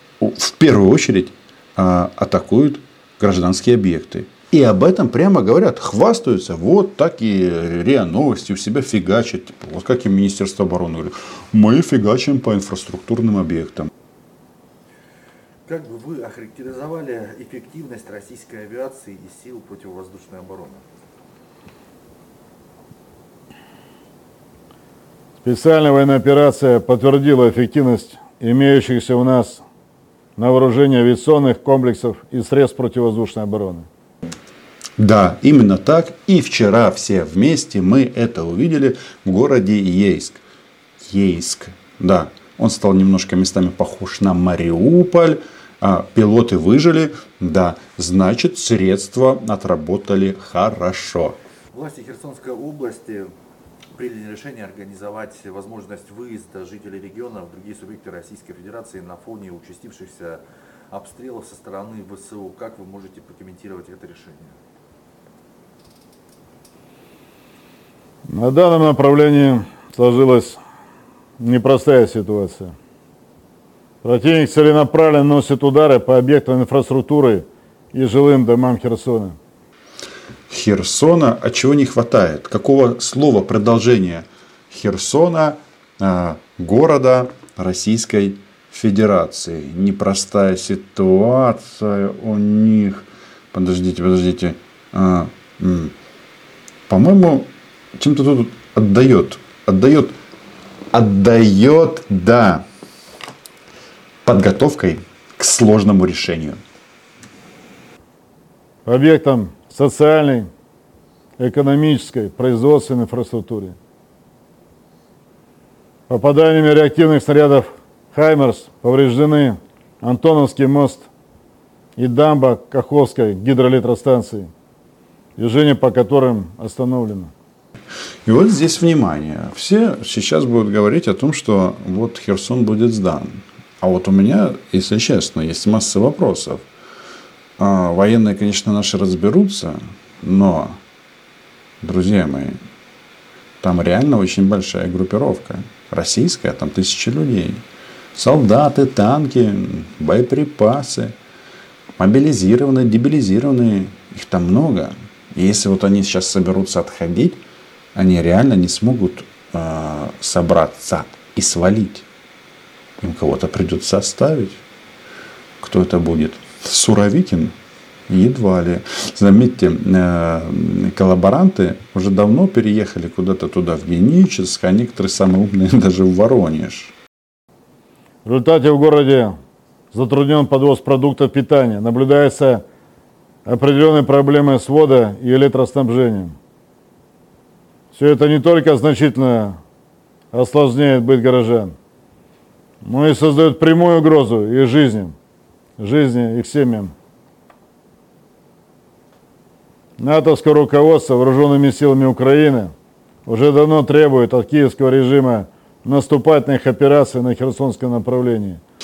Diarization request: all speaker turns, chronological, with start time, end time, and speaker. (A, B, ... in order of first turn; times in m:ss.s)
0:00.2-0:13.9 A
0:15.6-0:20.8 B
0:25.4-0:29.6 C
0:30.4-0:33.9 C
0:35.0-0:40.4 A
0:41.0-0:51.4 A
0:51.7-0:53.3 B
0:53.9-1:04.6 B
1:08.3-1:10.6 C
1:11.4-1:12.7 C
1:14.0-1:19.4 C
1:20.5-1:35.9 A
1:36.9-1:40.1 A
1:40.9-1:42.6 A
1:44.2-1:46.6 A
1:48.8-1:50.4 C
1:51.4-1:53.8 C
1:56.1-2:01.1 C
2:02.0-2:04.5 C
2:05.4-2:07.3 C
2:08.2-2:16.6 A
2:17.6-2:20.8 A
2:21.8-2:22.6 A
2:23.6-2:27.6 A
2:28.1-2:31.1 A
2:32.0-2:37.4 A
2:37.9-2:42.0 A
2:43.0-2:44.6 A
2:45.6-2:47.5 A
2:48.1-2:56.9 A
2:58.2-2:59.3 C
2:59.9-3:02.6 C
3:03.4-3:06.3 C
3:07.9-3:09.6 C
3:10.3-3:11.7 C
3:12.8-3:15.1 C
3:15.8-3:16.9 C
3:20.0-3:22.7 C
3:23.2-3:28.6 C